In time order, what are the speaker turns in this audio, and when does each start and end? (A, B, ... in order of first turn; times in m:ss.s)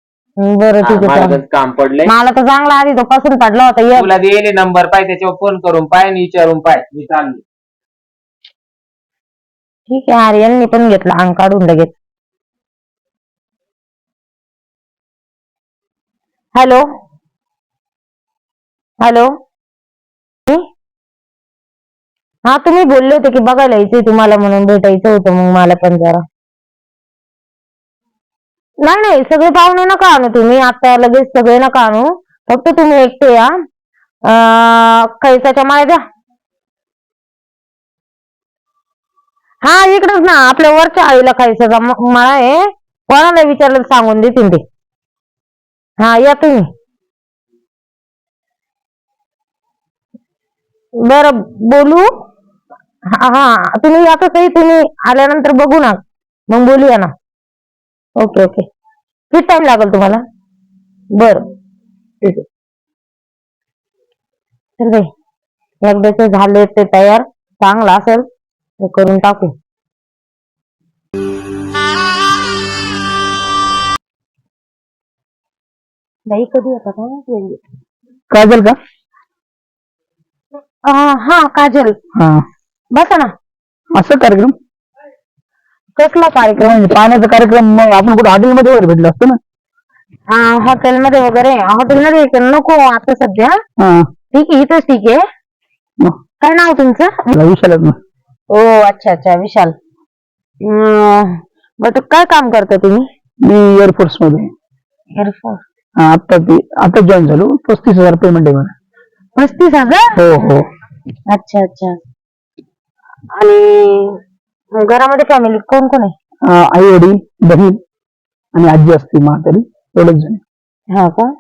0:00.4-0:01.4 A
0:00.8-0:02.1 B
0:02.1-0:04.1 A
0:04.0-0:07.4 B
0:09.9-0:12.0 A
0:16.5-0:16.8 A
0:19.0-0:19.3 A
0:22.4-0:26.2 A
0:28.8-0:33.5 A
0:34.3-0:36.0 A
0:39.6-0:44.6 A
0:46.0-0:46.7 A
0:51.0-0:52.1 A
0:53.1-0:57.1 A
0:58.2-0:58.6 A
0:59.3-1:00.2 A
1:01.2-1:01.4 A
1:04.8-1:05.1 A
1:05.8-1:08.2 A
1:08.8-1:09.5 A
1:16.3-1:17.6 A
1:18.3-1:18.8 C
1:20.8-1:22.0 A
1:22.2-1:22.4 C
1:22.9-1:23.3 A
1:23.9-1:24.6 C
1:26.0-1:26.8 A
1:26.6-1:29.4 C
1:30.3-1:33.6 A
1:33.8-1:34.1 C
1:34.3-1:35.2 A
1:36.4-1:37.3 A
1:37.3-1:38.0 C
1:38.5-1:39.7 A
1:40.6-1:43.1 A
1:43.4-1:44.5 C
1:45.2-1:45.6 A
1:46.0-1:48.7 C
1:49.4-1:50.2 A
1:50.2-1:50.7 C
1:51.3-1:52.0 A
1:53.3-1:54.2 A
1:54.8-1:56.1 A
1:56.5-1:57.8 C
1:58.6-2:00.4 C
2:00.9-2:01.3 A